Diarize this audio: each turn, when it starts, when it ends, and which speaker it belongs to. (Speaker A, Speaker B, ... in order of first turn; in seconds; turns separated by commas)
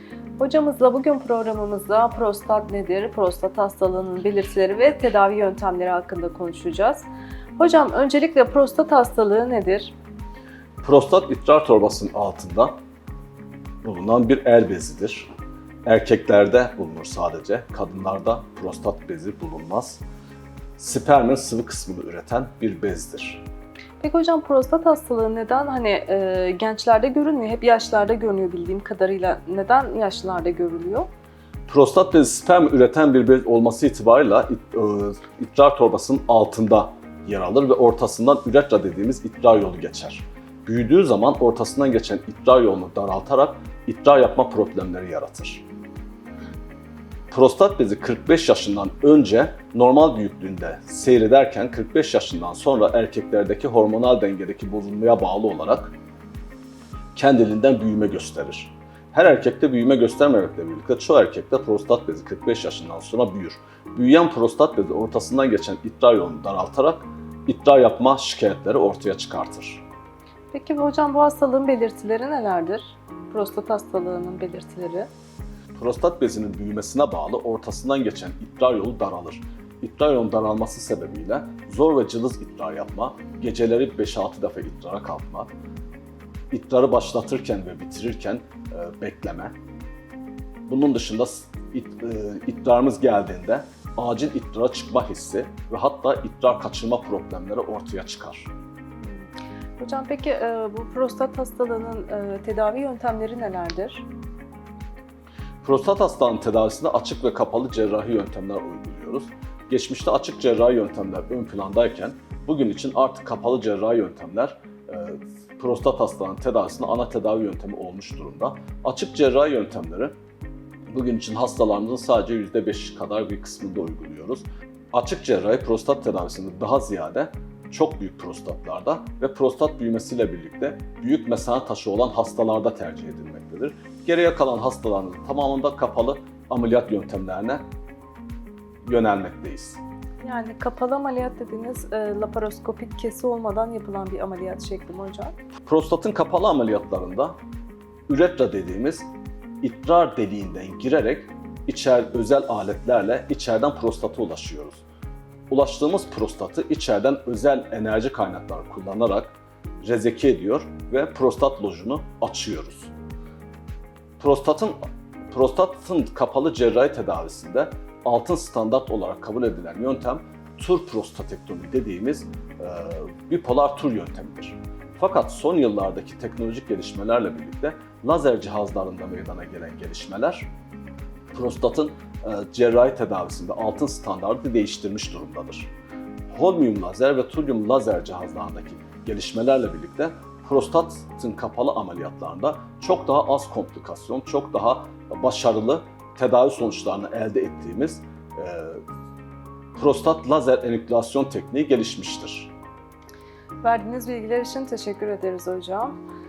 Speaker A: 0.4-9.9, Speaker B: 10.8-12.8, Speaker B: 13.8-15.3, Speaker B: 15.8-20.0, Speaker B: 20.8-23.4, Speaker A: 24.0-31.1, Speaker B: 31.7-45.6, Speaker B: 47.3-55.9, Speaker B: 57.1-69.8, Speaker A: 70.5-75.1, Speaker B: 75.7-85.5, Speaker B: 86.5-89.5, Speaker B: 90.7-98.5, Speaker A: 99.0-104.0, Speaker B: 105.6-120.1, Speaker B: 120.9-137.6, Speaker B: 138.9-139.8, Speaker A: 140.2-145.3, Speaker B: 145.7-147.3, Speaker B: 148.1-149.1, Speaker B: 149.6-154.8, Speaker B: 155.5-162.9, Speaker B: 164.2-164.8, Speaker B: 165.3-180.5, Speaker B: 181.3-185.7, Speaker B: 186.3-198.8, Speaker B: 199.8-202.5, Speaker A: 203.6-206.0